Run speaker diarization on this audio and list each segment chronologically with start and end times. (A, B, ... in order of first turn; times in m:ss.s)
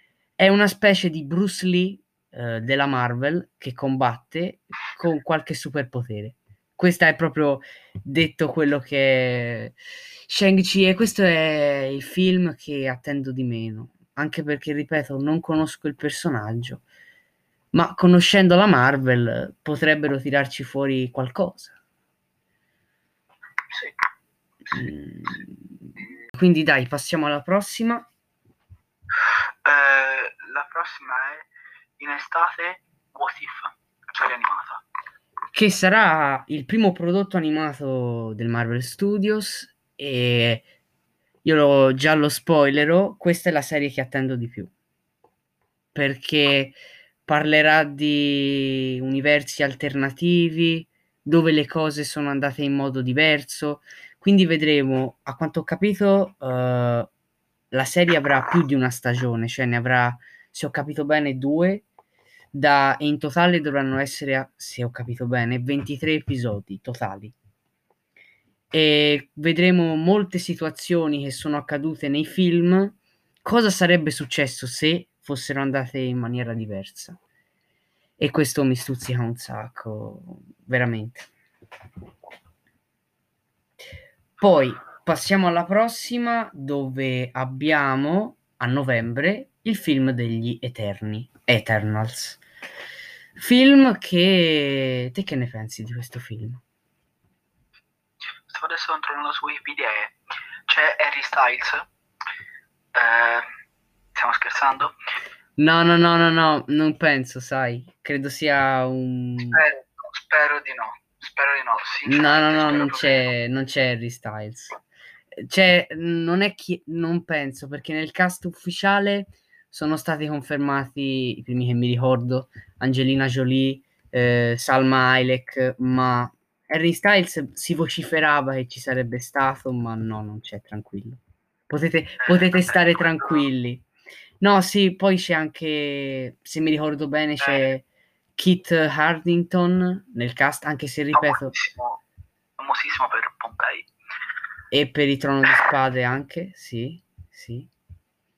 0:00.4-0:09.8 A
0:10.3-0:16.8 A
0:17.7-0:21.8 A
0:23.7-0:24.0 B
0:24.7-0:25.7 A
0:26.3-0:28.1 A
0:29.6-0:31.5 B
0:32.0-0:34.8 B
0:35.5-0:40.6 A
0:41.4-0:44.7 A
0:45.9-0:57.1 A
0:57.7-1:01.8 A
1:02.5-1:07.4 A
1:08.7-1:17.2 A
1:18.2-1:21.3 A
1:24.4-1:32.4 A
1:33.4-1:36.6 A
1:38.5-1:40.2 B
1:40.7-1:41.9 B
1:43.0-1:43.5 B
1:44.2-1:45.0 B
1:45.6-1:49.6 A
1:49.4-1:53.3 B
1:52.1-1:54.8 A
1:55.4-2:13.8 A
2:12.2-2:13.4 B
2:14.4-2:17.8 A
2:17.4-2:17.7 B
2:18.4-2:21.6 A
2:21.1-2:22.0 B
2:22.6-2:23.9 B
2:24.7-2:27.7 A